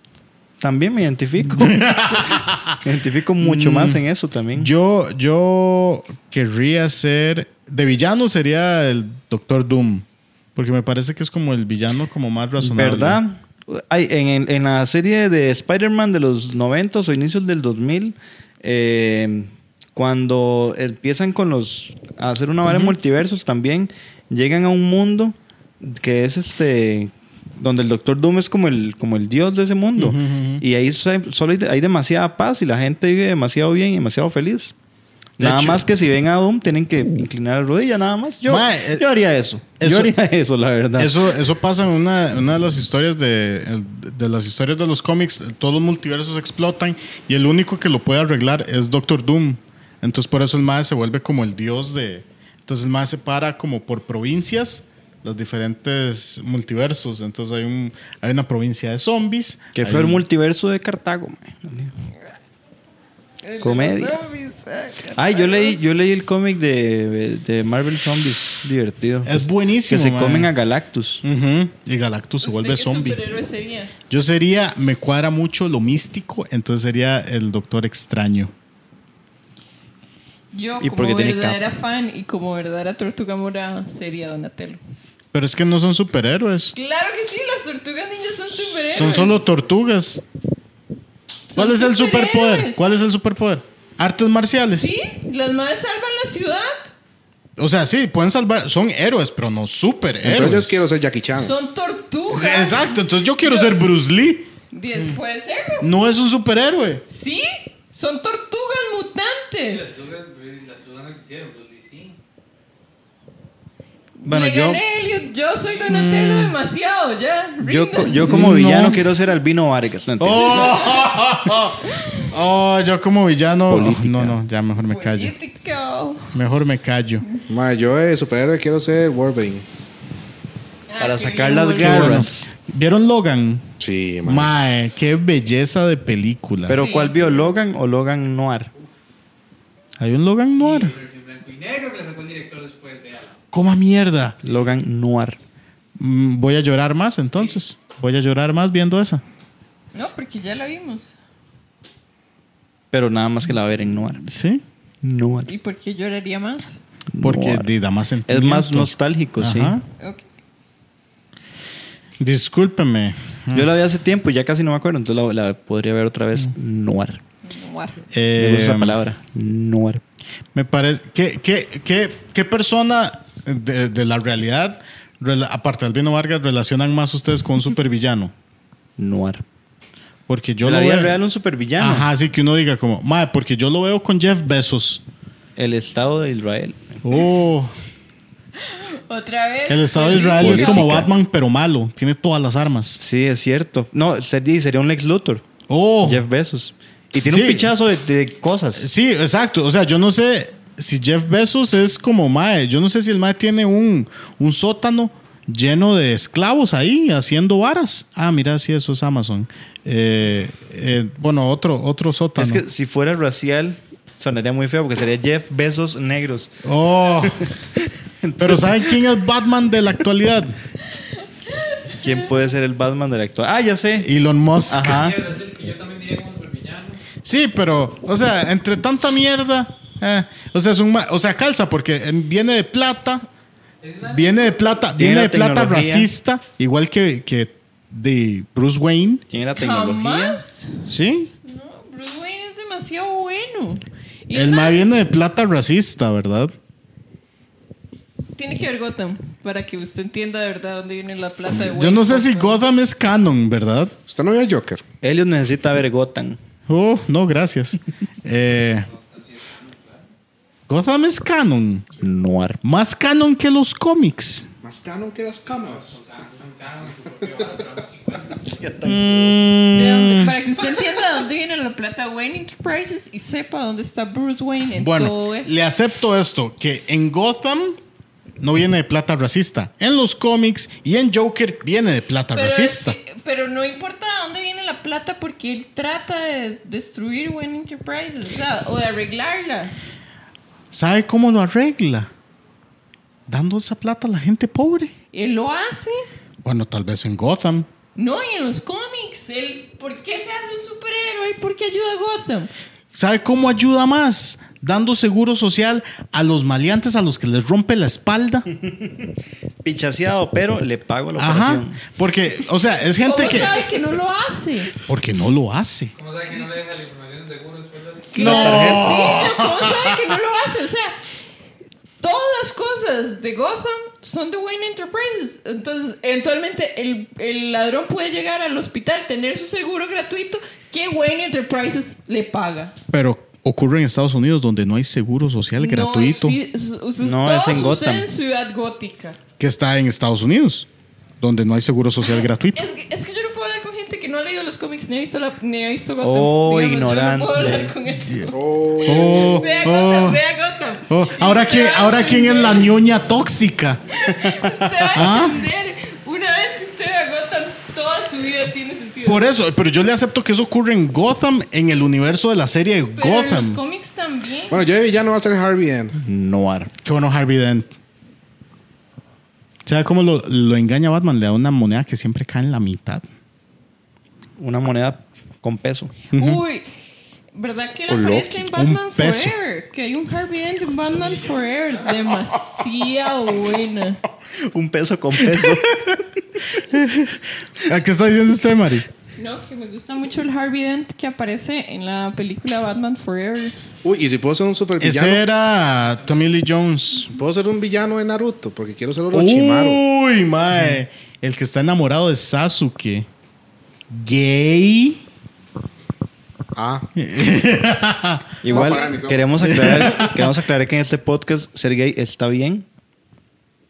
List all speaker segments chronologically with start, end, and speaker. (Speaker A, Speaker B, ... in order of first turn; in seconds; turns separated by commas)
Speaker A: 0.6-4.7, Speaker B: 1.5-2.8, Speaker B: 3.4-4.0, Speaker B: 4.5-13.2, Speaker A: 12.6-34.7, Speaker B: 22.6-22.9, Speaker B: 30.0-30.6, Speaker A: 35.4-41.3, Speaker B: 35.4-35.8, Speaker B: 38.5-39.0, Speaker B: 39.8-40.1, Speaker B: 41.0-60.2, Speaker A: 59.7-61.9, Speaker C: 63.5-65.8, Speaker A: 63.6-64.2, Speaker A: 65.2-71.2, Speaker B: 69.2-70.5, Speaker B: 71.2-73.2, Speaker C: 72.4-73.9, Speaker B: 74.1-78.5, Speaker C: 80.5-84.8, Speaker A: 80.8-81.6, Speaker B: 85.3-86.7, Speaker C: 86.7-89.5, Speaker B: 88.9-90.2, Speaker C: 91.5-92.8, Speaker B: 91.5-94.9, Speaker C: 94.7-96.9, Speaker B: 97.6-100.8, Speaker D: 100.2-101.5, Speaker C: 101.3-103.7, Speaker B: 102.3-105.2, Speaker C: 104.7-105.9, Speaker B: 105.8-107.0, Speaker C: 107.1-110.1, Speaker E: 109.6-112.2, Speaker C: 114.2-118.4, Speaker A: 114.2-114.8, Speaker B: 115.9-116.5, Speaker A: 117.6-120.8, Speaker B: 118.3-119.0, Speaker B: 120.2-125.3, Speaker C: 120.5-121.1, Speaker C: 121.8-122.3, Speaker A: 123.7-124.4, Speaker C: 124.8-126.4, Speaker B: 126.3-127.2, Speaker D: 127.5-129.6, Speaker C: 130.9-132.3, Speaker A: 131.0-132.5, Speaker B: 131.7-133.7, Speaker D: 133.8-134.5, Speaker B: 134.2-136.8, Speaker A: 136.6-138.7, Speaker C: 136.7-137.5, Speaker B: 140.0-140.9, Speaker E: 140.5-143.4, Speaker B: 143.5-144.4, Speaker A: 144.4-145.4, Speaker B: 146.0-149.2, Speaker E: 147.3-147.6, Speaker C: 149.9-151.1, Speaker A: 152.9-154.3, Speaker B: 154.3-154.6, Speaker A: 155.0-155.5, Speaker C: 155.5-156.8, Speaker A: 157.1-157.7, Speaker B: 157.2-159.8, Speaker A: 158.3-159.8, Speaker B: 162.2-163.7, Speaker A: 163.5-167.2, Speaker C: 167.4-168.0, Speaker B: 168.1-169.0, Speaker A: 168.4-170.0, Speaker B: 170.5-178.3, Speaker A: 179.0-179.4, Speaker B: 180.3-181.2, Speaker A: 180.6-182.1, Speaker B: 181.8-185.0, Speaker A: 185.6-187.0, Speaker B: 187.0-187.7, Speaker C: 188.6-191.0, Speaker B: 189.7-193.0, Speaker A: 190.1-191.1, Speaker A: 193.0-195.4, Speaker B: 195.7-196.2, Speaker A: 196.0-198.9, Speaker B: 197.3-197.7, Speaker B: 198.8-212.6, Speaker A: 212.4-216.5, Speaker B: 216.6-217.5, Speaker A: 217.1-219.0, Speaker B: 218.4-220.6, Speaker C: 220.9-222.3, Speaker A: 222.0-224.1, Speaker B: 223.9-225.1, Speaker A: 224.7-225.2, Speaker E: 224.9-227.0, Speaker B: 227.2-233.2, Speaker E: 233.8-234.8, Speaker B: 234.1-239.2, Speaker A: 234.9-236.1, Speaker A: 239.3-240.4, Speaker C: 239.6-240.9, Speaker B: 240.9-241.3, Speaker C: 241.4-244.8, Speaker B: 244.3-246.5, Speaker C: 248.3-252.6, Speaker B: 251.5-253.9, Speaker D: 254.1-254.8, Speaker A: 255.0-256.4, Speaker B: 256.7-258.9, Speaker E: 258.8-260.1, Speaker B: 260.7-261.8, Speaker A: 262.0-262.6, Speaker B: 262.6-264.5, Speaker D: 264.6-266.0, Speaker E: 265.4-268.6, Speaker A: 268.4-269.4, Speaker B: 268.9-270.3, Speaker C: 269.7-275.6, Speaker B: 274.8-277.8, Speaker B: 278.4-282.9, Speaker C: 282.3-289.8, Speaker B: 290.7-292.1, Speaker B: 293.3-294.9, Speaker C: 295.1-296.1, Speaker B: 296.4-297.7, Speaker C: 297.9-302.5, Speaker B: 302.9-308.5, Speaker A: 308.5-309.1, Speaker A: 309.6-311.9, Speaker B: 311.2-313.6, Speaker C: 313.0-314.7, Speaker B: 314.9-315.9, Speaker E: 315.9-318.6, Speaker C: 318.1-320.9, Speaker B: 318.1-319.9, Speaker A: 318.2-319.0, Speaker C: 322.0-332.7, Speaker B: 332.9-336.4, Speaker C: 335.6-339.2, Speaker A: 337.0-338.1, Speaker B: 339.4-340.7, Speaker B: 341.2-342.6, Speaker C: 342.0-352.7, Speaker A: 346.0-347.7, Speaker D: 348.3-349.6, Speaker B: 348.8-350.2, Speaker B: 350.9-353.8, Speaker C: 353.9-359.2, Speaker B: 354.9-355.4, Speaker B: 359.0-363.6, Speaker C: 362.9-364.6, Speaker D: 364.5-365.9, Speaker A: 366.0-366.7, Speaker B: 366.8-367.7, Speaker B: 369.6-373.0, Speaker A: 374.4-375.9, Speaker C: 376.1-376.7, Speaker B: 376.1-376.4, Speaker C: 377.3-384.0, Speaker A: 377.9-378.4, Speaker B: 378.5-379.3, Speaker E: 380.9-382.0, Speaker A: 384.4-386.6, Speaker B: 385.2-386.0, Speaker B: 386.5-388.9, Speaker C: 389.2-393.5, Speaker D: 393.8-395.2, Speaker B: 394.8-397.2, Speaker D: 397.1-399.8, Speaker B: 399.1-403.1, Speaker A: 400.5-400.8, Speaker B: 403.9-405.0, Speaker D: 406.5-406.9, Speaker B: 406.9-408.5, Speaker A: 408.4-412.6, Speaker D: 408.5-409.5, Speaker B: 409.4-410.3